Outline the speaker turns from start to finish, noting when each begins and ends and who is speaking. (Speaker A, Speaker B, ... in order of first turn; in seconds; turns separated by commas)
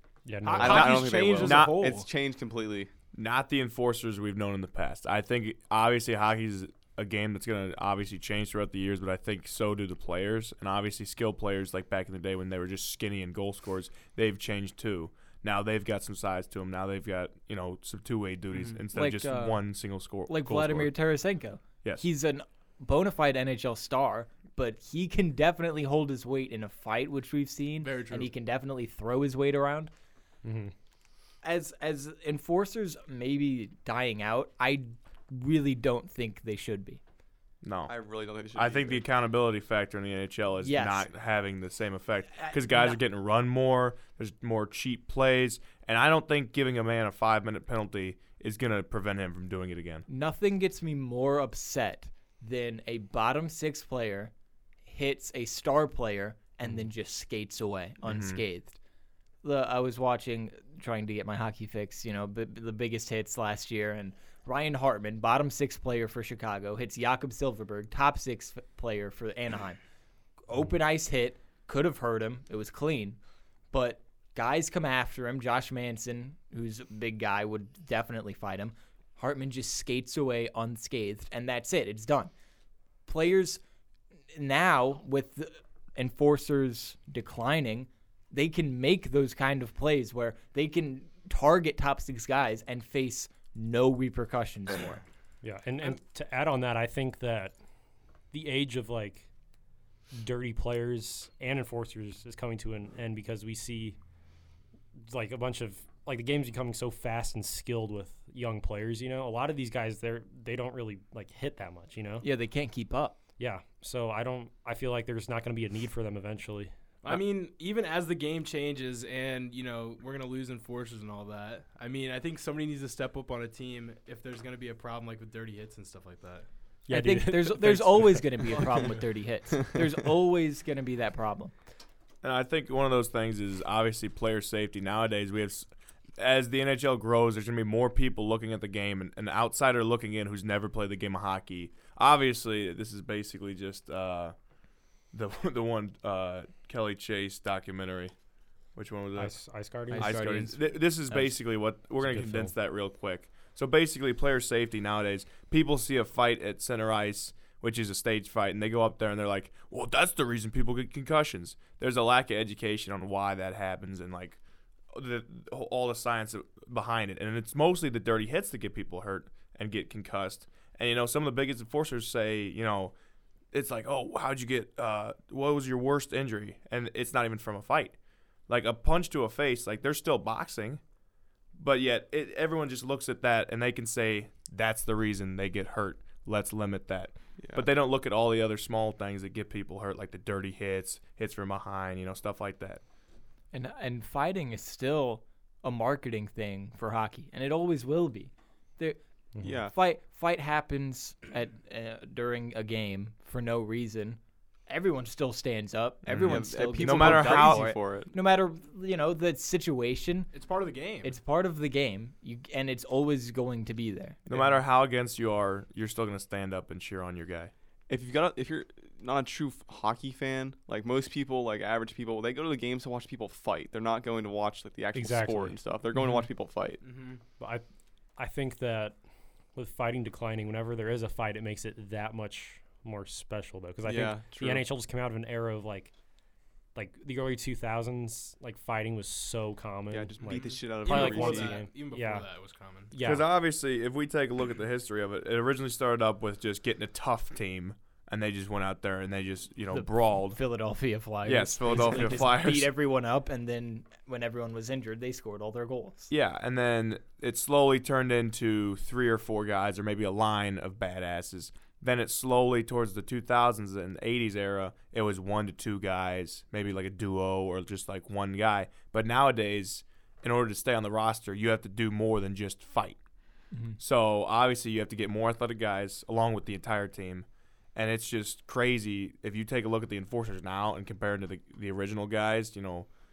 Speaker A: 0.2-1.0, Speaker B: 0.5-2.1, Speaker C: 0.5-2.9, Speaker D: 0.6-2.0, Speaker D: 3.1-20.9, Speaker B: 18.6-18.8, Speaker E: 18.9-19.7, Speaker E: 20.3-29.9, Speaker B: 27.8-28.3, Speaker A: 30.4-30.7, Speaker E: 31.4-37.0, Speaker D: 37.6-37.9, Speaker C: 37.9-39.0, Speaker D: 38.5-50.1, Speaker E: 40.6-41.1, Speaker E: 42.4-43.0, Speaker E: 50.1-54.3, Speaker E: 54.9-58.8, Speaker D: 58.0-58.4, Speaker E: 59.4-69.8, Speaker E: 70.5-73.2, Speaker E: 73.7-82.3, Speaker E: 83.1-83.6, Speaker E: 84.3-95.0, Speaker A: 95.4-97.5, Speaker A: 98.3-99.3, Speaker A: 100.1-104.0, Speaker A: 105.1-112.3, Speaker E: 112.2-113.2, Speaker A: 113.4-117.2, Speaker B: 117.0-126.5, Speaker A: 126.9-128.4, Speaker E: 126.9-131.5, Speaker B: 128.6-129.0, Speaker D: 132.2-144.3, Speaker D: 145.1-148.1, Speaker D: 148.8-149.3, Speaker A: 149.2-150.2, Speaker E: 149.9-151.4, Speaker D: 149.9-164.4, Speaker A: 152.0-152.5, Speaker D: 164.9-172.9, Speaker D: 173.5-178.0, Speaker D: 178.5-180.8, Speaker D: 181.6-192.8, Speaker E: 193.5-199.0, Speaker C: 199.4-199.7, Speaker E: 199.7-210.3, Speaker D: 206.1-207.7, Speaker C: 206.2-208.1, Speaker B: 210.3-211.1, Speaker E: 211.0-214.2, Speaker D: 214.3-217.5, Speaker C: 217.9-226.8, Speaker A: 224.9-225.6, Speaker B: 226.8-227.2, Speaker A: 228.2-228.9, Speaker A: 229.6-235.9, Speaker C: 233.8-234.7, Speaker A: 236.8-242.3, Speaker C: 239.9-241.6, Speaker B: 240.3-242.9, Speaker A: 242.9-243.3, Speaker D: 243.0-250.4, Speaker E: 249.7-256.1, Speaker D: 251.2-252.7, Speaker D: 256.1-273.0, Speaker E: 273.5-273.8, Speaker D: 273.8-282.9